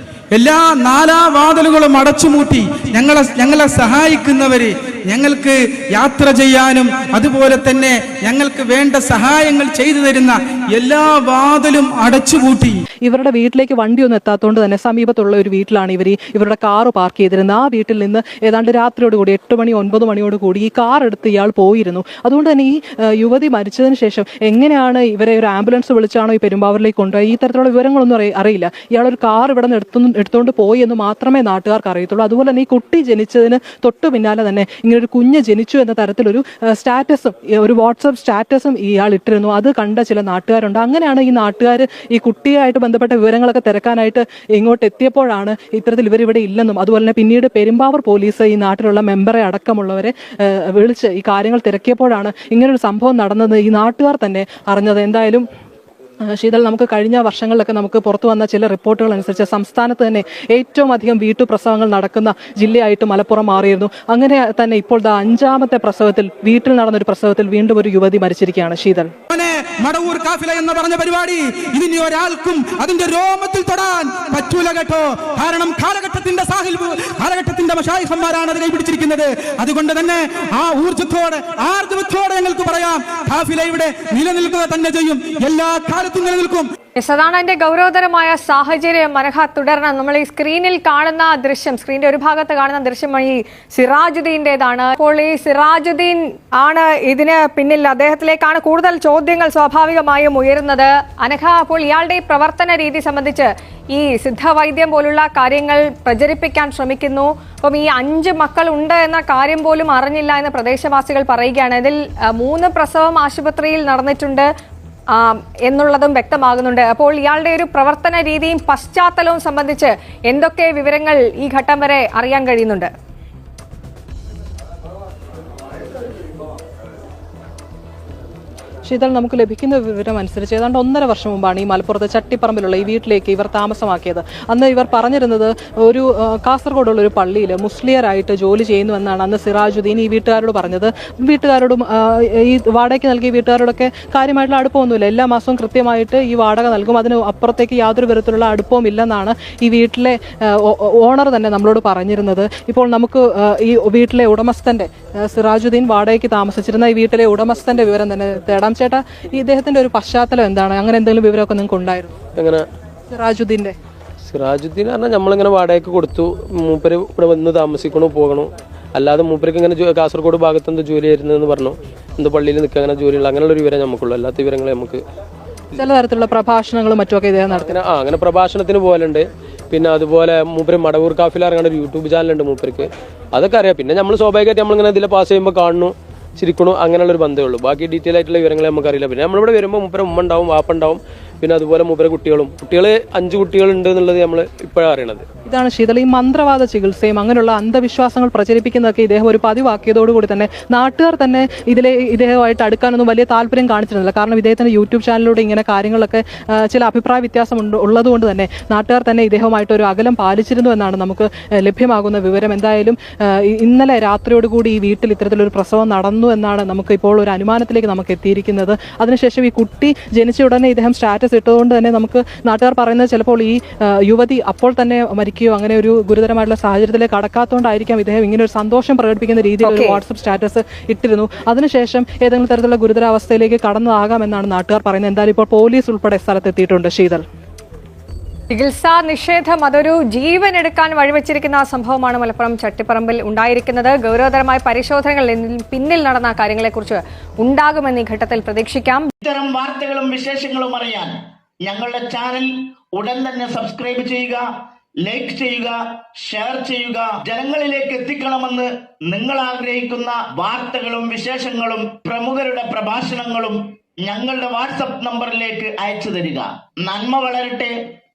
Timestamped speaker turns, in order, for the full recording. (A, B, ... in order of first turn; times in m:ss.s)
0:00.3-0:12.8 A
0:13.0-0:55.4 B
0:56.3-1:09.1 B
1:09.3-1:26.7 A
1:27.0-1:54.5 C
1:55.1-2:02.9 C
2:08.8-2:42.1 B
2:42.4-2:42.6 D
2:43.1-2:43.7 B
2:44.3-2:55.0 D
2:55.8-2:57.7 B
2:57.7-3:15.2 D
3:15.4-3:57.2 B
3:49.6-3:50.0 C
3:58.5-4:09.1 C
4:09.2-4:11.1 E
4:11.6-4:14.4 E
4:15.0-4:27.8 E